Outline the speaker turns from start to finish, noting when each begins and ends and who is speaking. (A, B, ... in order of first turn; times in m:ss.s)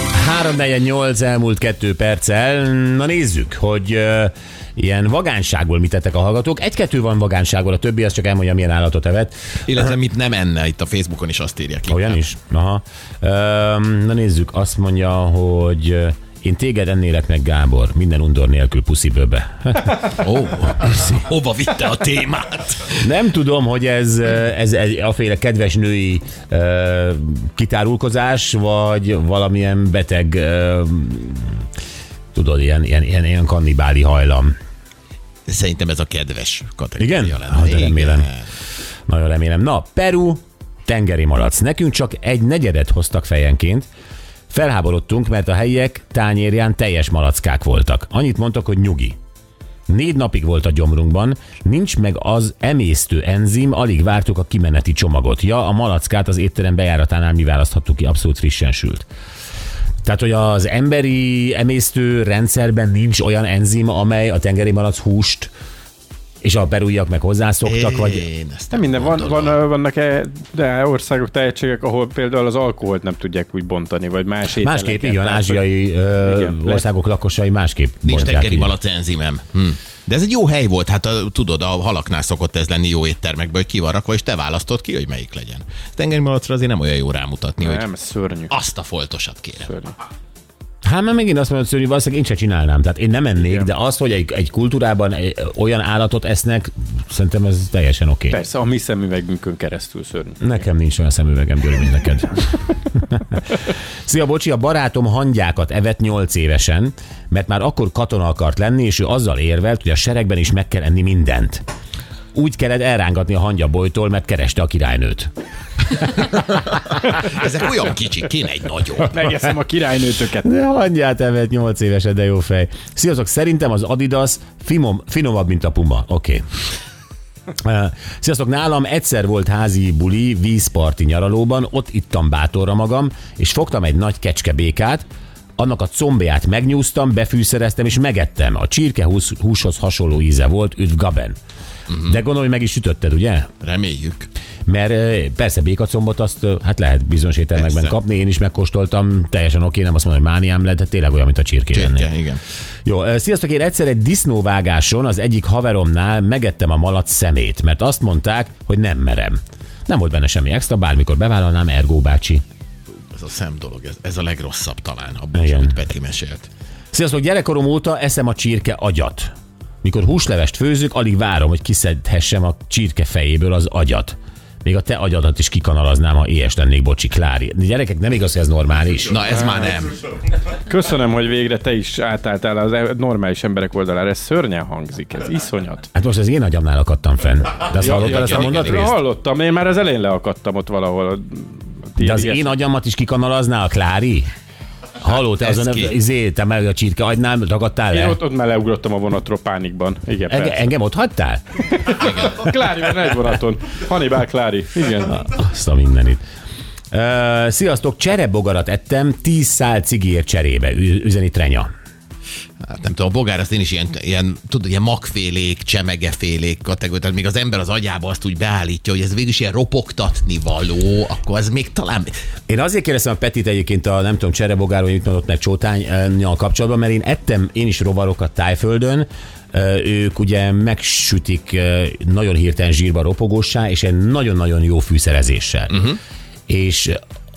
0:00.1-0:09.3 A
0:09.7-0:12.2 B
0:11.9-0:20.0 A
0:20.2-0:23.0 B
0:23.0-0:31.6 A
0:32.3-0:34.5 A
0:35.5-0:38.5 B
0:37.0-0:38.3 A
0:39.1-0:43.9 A
0:44.5-0:49.2 A
0:49.9-0:59.1 A
1:00.0-1:05.5 A
1:06.4-1:08.3 A
1:07.6-1:09.6 B
1:08.7-1:16.8 C
1:14.6-1:18.7 A
1:18.0-1:27.9 B
1:27.6-1:28.5 C
1:28.5-1:29.7 B
1:29.6-1:29.9 C
1:30.8-1:38.4 A
1:38.3-1:40.5 C
1:40.4-1:43.2 A
1:44.0-1:51.6 A
1:52.3-1:55.3 A
1:55.8-1:56.9 A
1:57.1-1:59.2 B
1:59.0-2:00.5 C
2:00.4-2:06.4 A
2:07.6-2:15.0 A
2:15.6-2:21.4 A
2:22.0-2:23.5 A
2:23.6-2:24.3 B
2:24.7-2:32.1 A
2:27.6-2:27.9 B
2:31.7-2:32.4 B
2:32.8-2:42.4 A
2:43.1-2:46.5 B
2:45.3-2:45.7 A
2:46.9-2:49.3 A
2:49.8-2:59.2 A
2:59.1-3:00.0 B
2:59.3-2:59.8 C
3:00.5-3:05.9 C
3:05.9-3:09.0 A
3:07.8-3:12.5 C
3:07.8-3:08.9 B
3:12.0-3:14.3 A
3:15.0-3:18.2 A
3:15.4-3:15.9 B
3:17.9-3:20.7 C
3:20.3-3:21.4 A
3:21.6-3:25.2 C
3:25.1-3:26.2 A
3:26.9-3:31.7 A
3:32.6-3:42.1 B
3:42.5-3:55.9 A
3:55.7-3:56.0 B
3:56.5-3:57.0 A